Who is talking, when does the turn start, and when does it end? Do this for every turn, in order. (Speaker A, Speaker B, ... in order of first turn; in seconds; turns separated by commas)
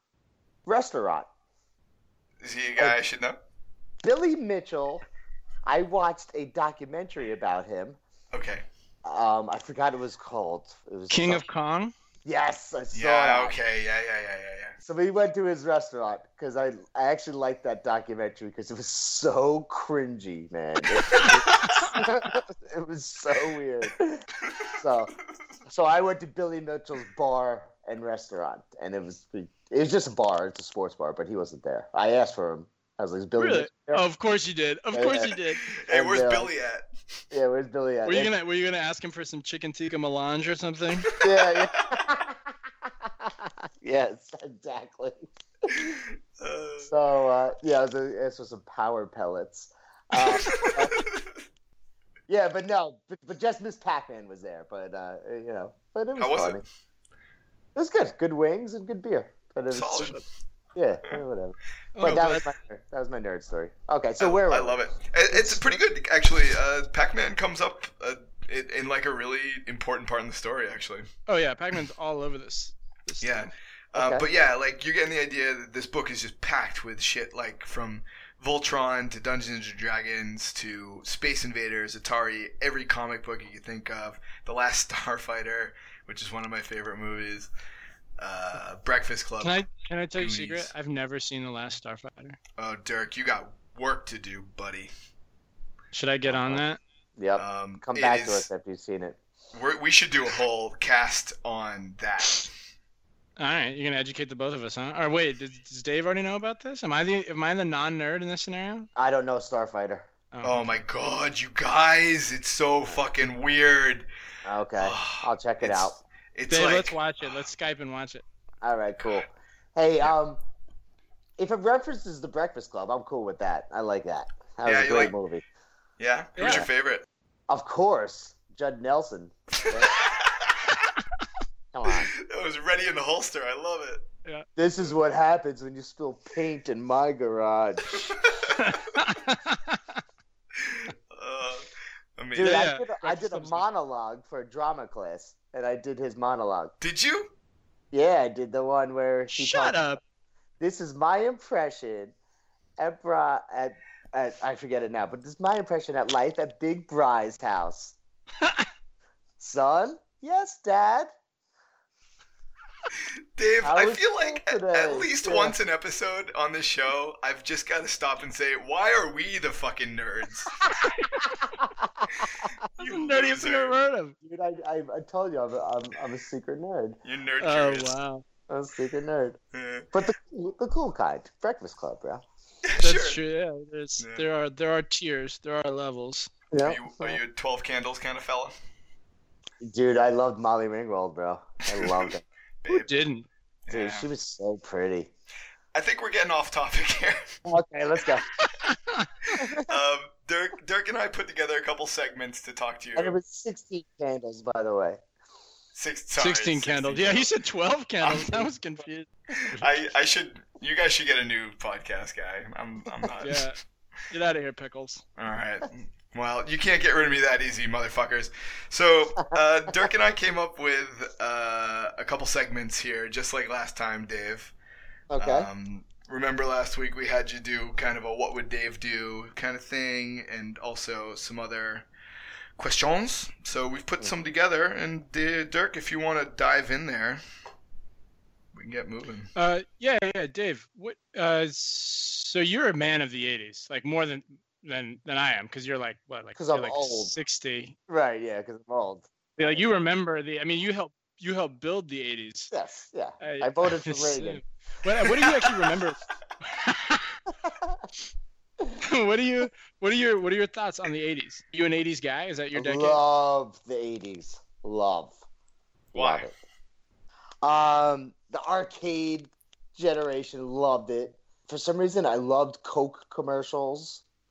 Speaker A: 0.7-1.3, Speaker B: 2.4-3.4, Speaker A: 4.0-5.0, Speaker A: 5.7-8.0, Speaker B: 8.3-8.7, Speaker A: 9.0-11.4, Speaker C: 11.1-11.9, Speaker A: 12.2-13.6, Speaker B: 12.9-14.8, Speaker A: 14.8-24.3, Speaker B: 21.1-21.8, Speaker C: 21.2-21.8, Speaker A: 24.8-25.1, Speaker A: 25.7-34.0, Speaker C: 33.4-35.6, Speaker A: 34.9-35.4, Speaker B: 35.6-36.9, Speaker A: 35.9-36.5, Speaker A: 37.3-38.3, Speaker C: 38.0-41.1, Speaker B: 41.1-42.0, Speaker A: 41.2-46.0, Speaker B: 45.7-46.9, Speaker A: 46.8-51.0, Speaker B: 50.1-51.3, Speaker A: 52.3-56.6, Speaker B: 56.2-56.6, Speaker A: 57.8-60.2, Speaker B: 59.7-60.2, Speaker A: 60.8-64.8, Speaker C: 62.0-62.5, Speaker B: 64.2-71.1, Speaker A: 65.3-65.8, Speaker C: 71.3-73.5, Speaker B: 73.2-87.5, Speaker A: 74.0-74.2, Speaker B: 88.2-89.6, Speaker C: 89.4-92.4, Speaker B: 90.2-90.7, Speaker B: 92.6-94.9, Speaker C: 95.9-96.8, Speaker A: 96.2-96.6, Speaker A: 97.2-99.2, Speaker B: 97.4-98.5, Speaker B: 99.5-102.5, Speaker C: 103.4-108.9, Speaker A: 109.0-110.1, Speaker C: 110.3-110.8, Speaker B: 110.4-114.1, Speaker A: 114.5-116.0, Speaker B: 114.8-117.4, Speaker C: 116.5-118.2, Speaker A: 118.6-120.4, Speaker A: 121.4-125.4, Speaker B: 124.6-125.1, Speaker B: 126.0-127.0, Speaker C: 126.4-126.7, Speaker A: 126.4-126.7, Speaker A: 127.5-129.9, Speaker B: 129.7-130.6, Speaker A: 131.7-132.1, Speaker B: 132.1-134.1, Speaker A: 134.6-138.0, Speaker B: 138.3-138.6, Speaker C: 138.6-140.0, Speaker B: 140.6-142.7, Speaker A: 142.3-146.7, Speaker C: 142.4-143.6, Speaker B: 146.8-147.3, Speaker A: 147.9-149.8, Speaker C: 149.3-150.0, Speaker A: 150.6-152.2, Speaker A: 152.8-158.0, Speaker C: 158.4-158.7, Speaker A: 159.4-161.1, Speaker B: 163.4-170.5, Speaker A: 163.6-165.6, Speaker C: 170.9-171.2, Speaker A: 171.8-172.1, Speaker B: 172.8-173.8, Speaker C: 172.8-174.2, Speaker A: 174.2-177.0, Speaker B: 177.0-177.9, Speaker C: 177.4-178.2, Speaker A: 178.5-179.4, Speaker B: 179.5-179.9, Speaker A: 179.9-182.2, Speaker B: 182.6-183.2, Speaker C: 182.8-186.3, Speaker B: 184.0-184.2, Speaker A: 186.5-187.2, Speaker B: 186.6-188.5, Speaker A: 189.6-192.2, Speaker B: 191.8-192.1, Speaker B: 192.6-192.9, Speaker C: 192.7-193.3, Speaker B: 193.7-194.1, Speaker A: 193.7-195.1, Speaker B: 195.7-197.4, Speaker A: 197.4-198.3, Speaker C: 198.4-199.4, Speaker A: 199.4-199.7, Speaker B: 199.7-203.2, Speaker A: 203.0-205.0, Speaker B: 205.8-207.3, Speaker C: 206.2-209.6, Speaker B: 208.0-208.5, Speaker B: 209.5-213.5, Speaker C: 213.2-213.6, Speaker C: 214.1-215.0, Speaker B: 215.2-224.5, Speaker A: 225.1-225.5, Speaker B: 225.2-231.9, Speaker B: 232.6-237.2, Speaker B: 238.5-239.3, Speaker C: 239.3-247.8, Speaker A: 246.4-247.1, Speaker A: 247.9-249.6, Speaker C: 249.4-252.5, Speaker A: 252.5-254.4, Speaker C: 253.2-257.2, Speaker A: 257.4-257.8, Speaker C: 258.8-263.0, Speaker A: 262.6-265.2, Speaker A: 265.9-266.3, Speaker B: 265.9-266.3, Speaker A: 267.4-274.0